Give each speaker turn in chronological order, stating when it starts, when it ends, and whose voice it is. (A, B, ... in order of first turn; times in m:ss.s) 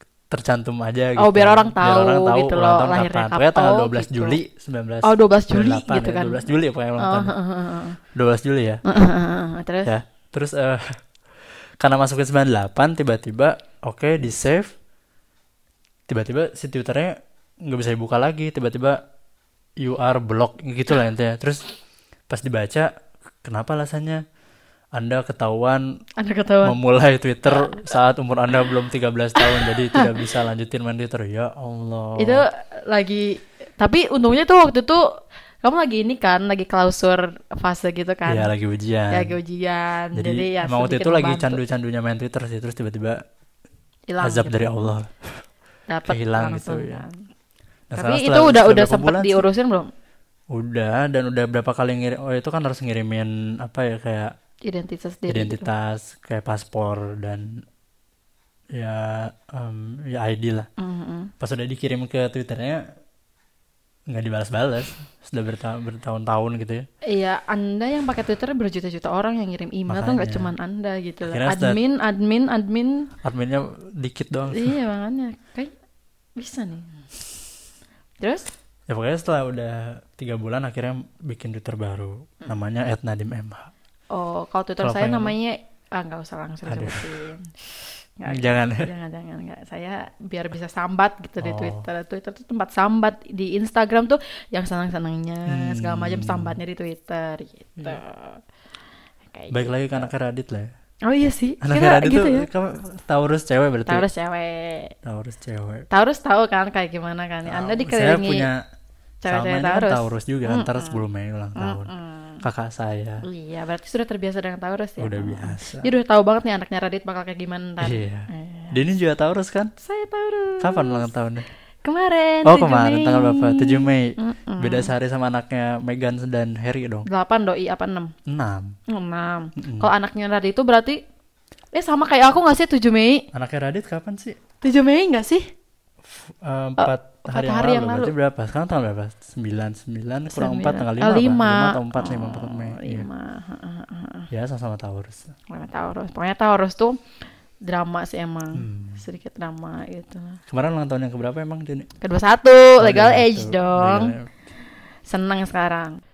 0:00.3-0:07.3 A
0:01.2-0:04.4 B
0:05.0-0:06.4 B
0:07.0-0:08.0 B
0:08.2-0:08.8 A
0:08.8-0:09.9 B
0:09.8-0:11.0 A
0:11.8-0:14.7 A
0:16.1-0:19.0 A
0:19.8-0:21.6 A
0:22.3-0:22.9 A
0:23.4-0:24.2 A
0:25.0-0:25.8 A
0:26.2-0:26.8 B
0:26.6-0:32.4 A
0:27.5-0:27.8 B
0:29.4-0:30.1 B
0:32.2-0:35.0 B
0:35.6-0:38.5 B
0:38.2-0:39.4 A
0:39.1-0:41.6 B
0:40.1-0:43.2 A
0:44.1-0:44.9 B
0:44.2-0:45.1 A
0:45.9-0:47.2 B
0:46.1-0:47.0 A
0:47.9-0:49.4 A
0:47.9-0:49.9 B
0:50.5-0:54.3 A
0:54.6-0:55.7 B
0:55.3-0:57.5 A
0:58.7-1:00.7 A
1:00.8-1:01.3 B
1:01.4-1:02.8 A
1:04.1-1:06.8 A
1:07.0-1:13.1 B
1:09.9-1:10.5 A
1:11.2-1:11.8 A
1:13.2-1:14.8 A
1:14.5-1:15.7 B
1:16.4-1:17.0 B
1:18.2-1:18.5 B
1:18.9-1:23.7 A
1:24.1-1:38.4 B
1:24.8-1:25.4 A
1:26.6-1:27.1 A
1:28.2-1:28.9 A
1:31.4-1:31.9 A
1:35.5-1:36.6 A
1:39.3-1:40.1 B
1:39.5-1:40.7 A
1:41.1-1:42.5 B
1:41.6-1:44.1 A
1:43.9-1:44.9 B
1:45.0-1:45.8 A
1:45.9-1:48.5 B
1:47.4-1:48.6 A
1:49.2-1:51.0 B
1:49.2-1:51.9 A
1:51.6-1:52.4 B
1:52.4-1:53.2 A
1:53.2-1:58.8 B
1:55.0-1:55.9 A
1:57.8-1:59.7 A
1:59.8-2:01.1 B
2:00.6-2:01.4 A
2:01.8-2:04.9 B
2:02.4-2:07.1 A
2:07.1-2:08.1 B
2:08.3-2:08.7 A
2:08.9-2:11.0 B
2:09.6-2:09.9 A
2:11.7-2:13.2 B
2:13.3-2:14.4 A
2:14.6-2:15.4 B
2:16.1-2:23.1 A
2:16.8-2:18.1 B
2:20.3-2:24.3 B
2:24.3-2:25.3 A
2:25.5-2:27.0 B
2:27.6-2:30.4 B
2:28.5-2:29.0 A
2:30.5-2:31.9 A
2:32.0-2:34.1 B
2:32.8-2:34.3 A
2:35.1-2:36.0 B